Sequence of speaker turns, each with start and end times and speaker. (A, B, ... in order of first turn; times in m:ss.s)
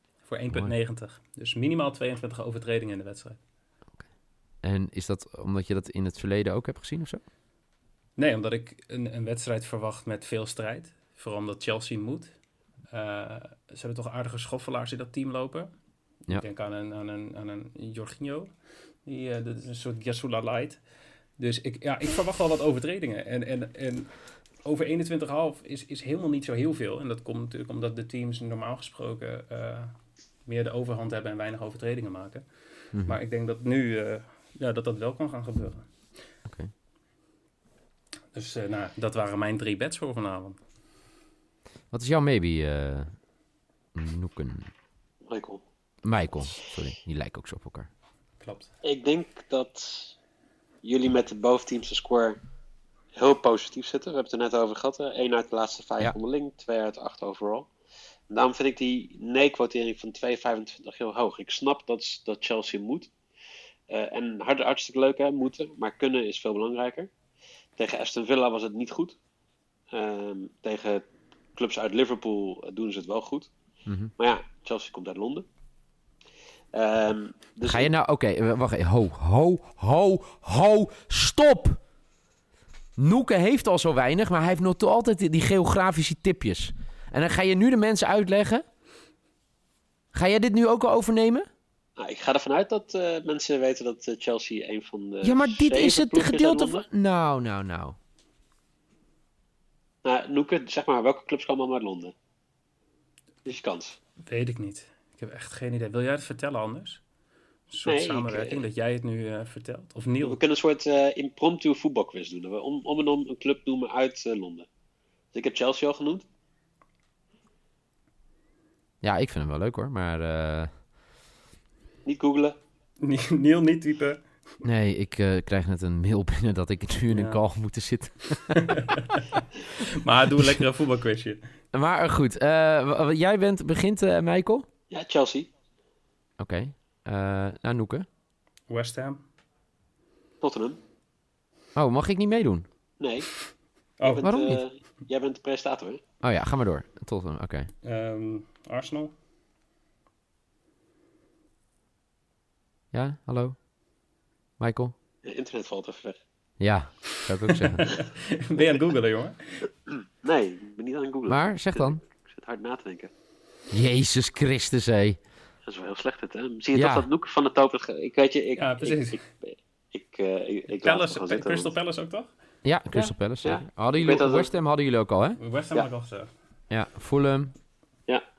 0:00.2-0:03.4 A
0:04.6-0:07.2 B
0:08.2-0:12.3 A
0:12.9-0:15.7 A
0:16.3-0:18.5 A
0:19.0-0:20.8 A
0:21.4-0:24.1 A
0:24.6-0:29.9 A
0:30.5-0:35.9 A
0:36.4-0:36.7 B
0:38.3-0:40.6 A
0:41.9-0:43.1 B
0:44.0-0:44.7 B
0:45.2-0:45.6 C
0:46.0-0:47.9 B
0:48.4-0:48.7 A
0:48.8-0:50.2 C
0:50.8-0:52.4 C
0:53.2-0:57.7 C
0:58.3-1:03.1 C
1:03.9-1:07.1 C
1:07.8-1:09.2 C
1:09.9-1:13.5 C
1:13.9-1:14.1 B
1:14.2-1:15.5 C
1:16.7-1:17.9 C
1:17.6-1:21.8 B
1:23.0-1:28.6 B
1:30.1-1:31.5 B
1:32.0-1:36.9 C
1:35.2-1:38.0 B
1:40.0-1:42.1 C
1:43.4-1:44.0 C
1:44.2-1:47.0 A
1:47.7-1:50.4 A
1:47.8-1:48.6 C
1:50.2-1:54.7 C
1:55.3-1:56.3 C
1:59.0-2:00.7 B
2:02.0-2:02.6 C
2:03.0-2:04.2 A
2:04.6-2:08.6 B
2:07.1-2:07.4 A
2:08.5-2:11.4 A
2:11.7-2:14.7 B
2:14.9-2:15.5 C
2:16.4-2:18.1 B
2:18.7-2:19.2 A
2:20.4-2:20.8 C
2:21.8-2:22.7 B
2:23.0-2:23.3 C
2:24.0-2:24.3 A
2:24.0-2:26.0 C
2:24.2-2:24.6 B
2:26.2-2:27.7 B
2:27.8-2:29.1 A
2:32.9-2:33.6 B
2:34.6-2:34.9 B
2:35.2-2:36.2 C
2:36.6-2:37.9 B
2:37.6-2:39.7 A
2:40.2-2:43.1 C
2:41.3-2:42.0 B
2:43.7-2:45.2 B
2:45.6-2:51.8 C
2:46.7-2:47.1 B
2:48.6-2:49.2 A
2:50.7-2:52.3 A
2:52.6-2:55.4 B
2:53.4-2:54.5 C
2:55.4-2:56.3 A
2:56.7-2:57.5 B